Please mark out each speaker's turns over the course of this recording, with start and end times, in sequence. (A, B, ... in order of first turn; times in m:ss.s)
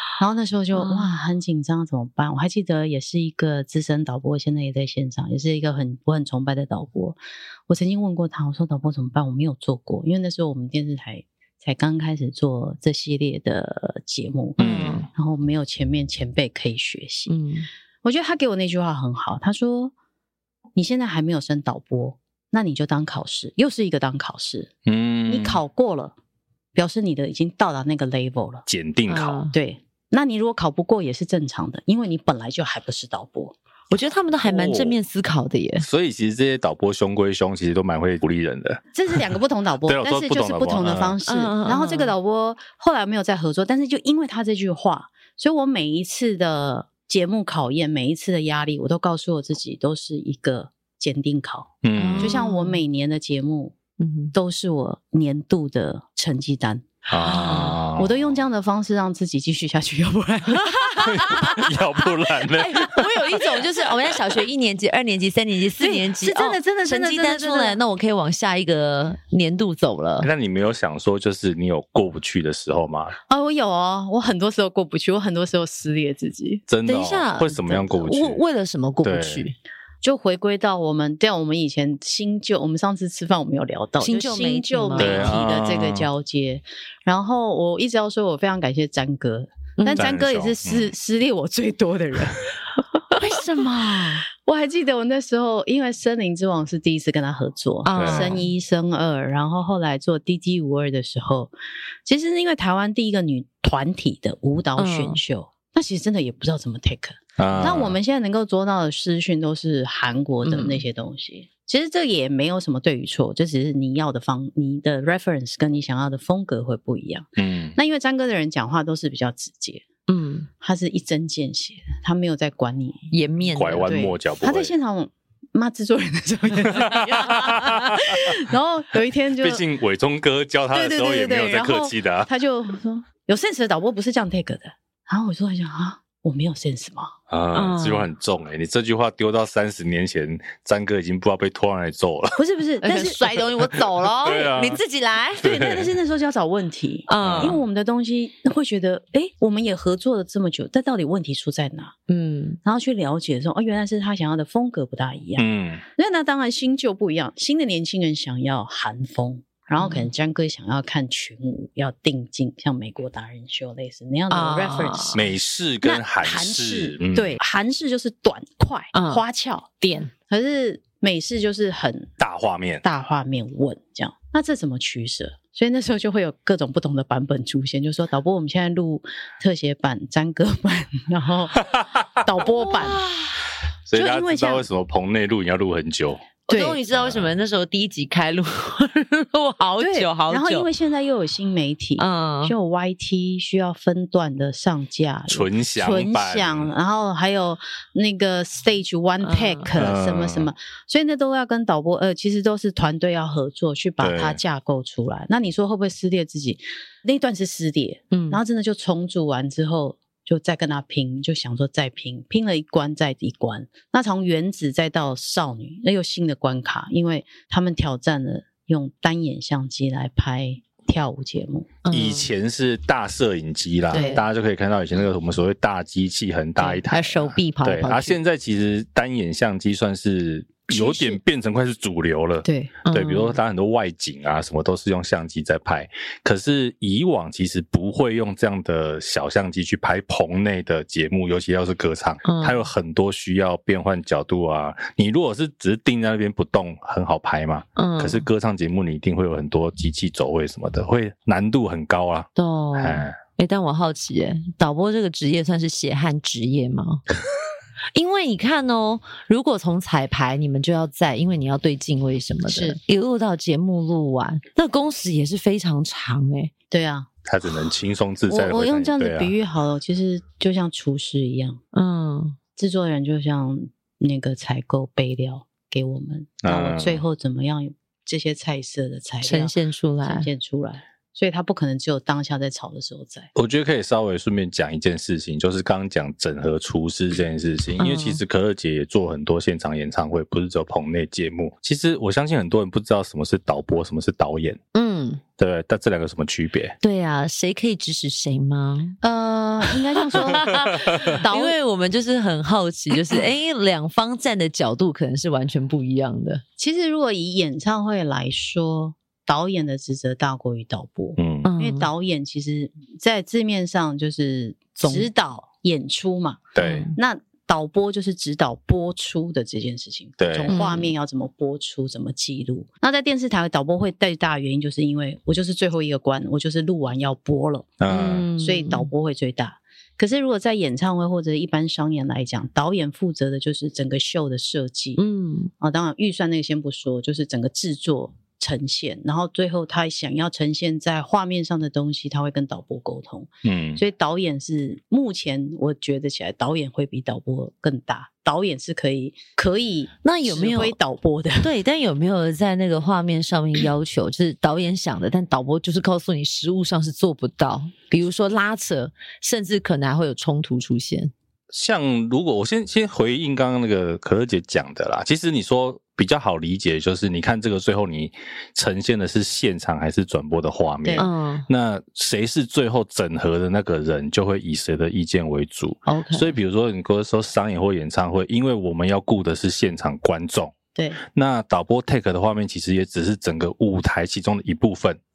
0:00.2-0:17.3 A
0:00.7-0:01.2 B
0:14.6-0:15.1 B
0:14.6-0:15.1 C
0:17.3-0:17.7 B
0:18.0-0:19.9 A
0:20.8-0:24.7 A
0:24.9-0:25.6 C
0:25.3-0:26.2 A
0:26.8-0:28.7 A
0:28.7-0:29.4 C
0:29.1-0:29.5 B
0:29.5-0:33.6 A
0:33.9-0:35.9 B
0:34.4-0:35.0 C
0:35.8-0:38.8 C
0:38.9-0:53.8 A
0:39.9-0:41.2 C
0:41.3-0:42.1 B
0:51.8-0:52.4 C
0:52.0-0:52.8 B
0:54.0-0:54.3 B
0:54.3-1:01.7 A
0:57.1-0:58.2 C
0:57.3-0:57.8 B
1:00.6-1:01.6 B
1:01.1-1:03.1 C
1:02.5-1:10.3 B
1:05.8-1:07.8 A
1:10.2-1:13.2 C
1:13.3-1:16.6 A
1:16.7-1:18.4 C
1:16.9-1:19.6 B
1:19.0-1:19.5 C
1:20.0-1:32.5 A
1:24.0-1:25.4 B
1:25.0-1:26.1 C
1:29.8-1:30.1 B
1:30.0-1:30.9 C
1:33.2-1:34.2 B
1:34.4-1:41.5 A
1:37.9-1:38.5 B
1:37.9-1:38.4 C
1:42.1-1:59.9 A
1:44.8-1:45.2 B
1:47.4-1:48.0 C
1:50.4-1:50.8 B
1:57.4-1:57.8 C
2:00.1-2:00.5 B
2:00.6-2:03.1 A
2:03.1-2:04.0 B
2:03.5-2:04.7 C
2:03.9-2:09.6 A
2:06.6-2:08.4 C
2:07.2-2:07.8 B
2:09.4-2:12.3 C
2:10.7-2:17.1 A
2:17.3-2:22.4 C
2:17.5-2:18.1 B
2:22.4-2:23.2 A
2:22.8-2:25.5 B
2:23.7-2:24.8 C
2:25.4-2:32.0 A
2:25.4-2:25.9 C
2:27.1-2:27.6 B
2:27.2-2:27.6 C
2:32.1-2:32.6 B
2:32.6-2:35.5 A
2:35.4-2:35.8 C
2:36.0-2:45.2 A
2:39.8-2:40.1 B
2:44.3-2:45.2 B
2:45.1-2:47.4 C
2:45.8-2:52.1 A
2:48.9-2:49.2 B
2:49.8-2:50.1 B
2:52.2-2:52.8 C
2:52.8-3:03.0 A
3:02.6-3:03.4 B
3:03.9-3:06.4 C
3:03.9-3:04.6 A
3:06.5-3:10.7 B
3:06.5-3:06.8 A
3:06.9-3:07.3 C
3:09.8-3:41.7 A
3:12.0-3:12.5 B
3:15.3-3:16.7 C
3:19.2-3:19.7 B
3:19.8-3:20.5 C
3:24.0-3:24.4 C
3:28.1-3:28.4 B
3:41.8-3:42.3 B
3:41.9-4:13.2 C
3:43.9-3:44.2 B
3:43.9-3:44.2 A
3:46.6-3:48.2 B
3:50.7-3:51.2 A
3:52.4-3:52.7 A
3:52.8-3:53.4 B
4:02.2-4:02.6 B
4:07.8-4:08.2 B
4:12.4-4:17.0 B
4:18.0-4:26.5 B
4:22.5-4:22.8 A
4:26.7-4:27.1 A
4:27.2-4:29.3 C
4:28.3-4:31.6 A
4:31.7-4:32.4 B
4:32.6-4:43.3 A
4:36.4-4:37.0 C
4:39.2-4:40.3 B
4:43.4-4:54.6 C
4:47.8-4:48.2 B
4:54.7-4:55.2 B
4:55.4-4:56.8 C
4:56.8-4:59.0 B
4:59.0-5:01.6 A
4:59.6-5:06.4 B
5:00.9-5:01.2 C
5:06.6-5:27.8 A
5:11.2-5:11.5 C
5:11.4-5:11.9 B
5:14.8-5:15.1 B
5:16.6-5:16.9 C
5:16.6-5:17.0 B
5:20.2-5:20.5 C
5:20.5-5:20.9 B
5:27.8-5:28.3 C
5:27.9-5:28.9 B
5:28.4-5:35.0 A
5:35.0-5:35.5 B
5:35.6-5:51.5 A
5:43.4-5:43.8 C
5:50.0-5:50.8 B
5:51.4-6:01.1 B
6:01.5-6:20.5 C
6:11.0-6:11.5 B
6:15.9-6:16.3 B
6:20.8-6:21.0 A
6:21.1-6:25.0 C